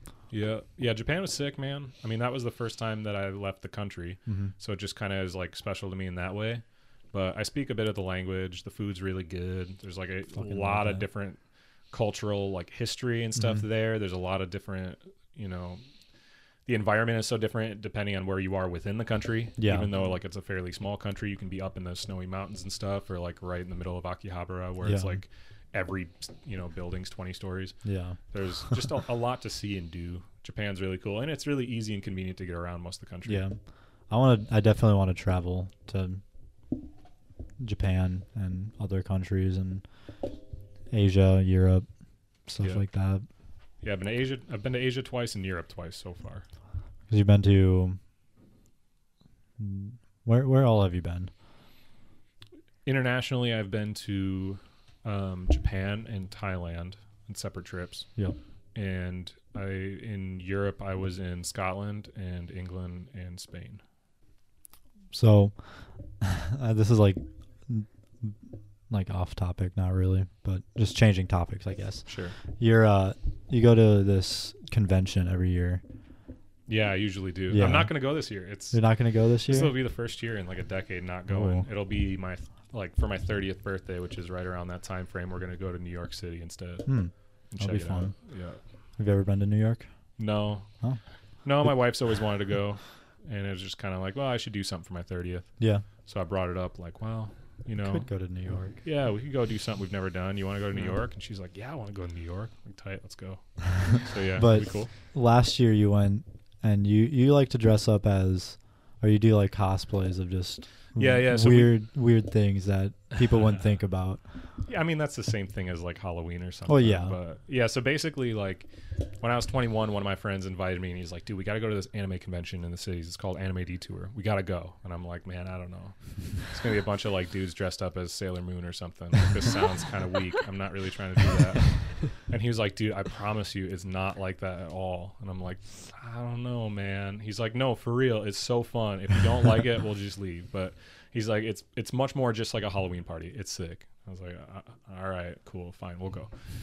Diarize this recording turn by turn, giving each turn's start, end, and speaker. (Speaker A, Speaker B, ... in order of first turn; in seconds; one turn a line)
Speaker A: 0.3-11.4
Speaker B: 4.3-4.5
Speaker B: 10.3-11.1
Speaker A: 11.9-15.8
Speaker B: 13.3-13.7
Speaker A: 16.7-27.8
Speaker B: 19.6-19.9
Speaker B: 24.8-25.2
Speaker B: 27.8-28.2
Speaker A: 28.3-33.4
Speaker B: 33.3-33.6
Speaker B: 34.1-36.2
Speaker B: 37.6-39.8
Speaker B: 40.9-41.9
Speaker B: 42.5-43.2
Speaker A: 43.8-46.5
Speaker B: 47.1-48.0
Speaker B: 49.6-51.3
Speaker A: 52.9-58.1
Speaker A: 58.8-63.8
Speaker B: 65.1-68.4
Speaker B: 68.9-75.8
Speaker A: 72.1-72.4
Speaker A: 76.7-78.8
Speaker B: 77.5-78.0
Speaker B: 78.7-79.7
Speaker A: 79.5-86.9
Speaker B: 81.3-81.7
Speaker B: 86.9-88.1
Speaker A: 87.5-88.6
Speaker B: 89.0-89.9
Speaker A: 90.2-90.7
Speaker A: 91.4-95.5
Speaker B: 95.6-95.8
Speaker A: 96.0-98.1
Speaker B: 97.8-98.8
Speaker A: 98.8-104.9
Speaker B: 104.3-114.2
Speaker A: 111.0-111.8
Speaker A: 114.7-118.7
Speaker B: 116.7-117.2
Speaker A: 119.2-146.3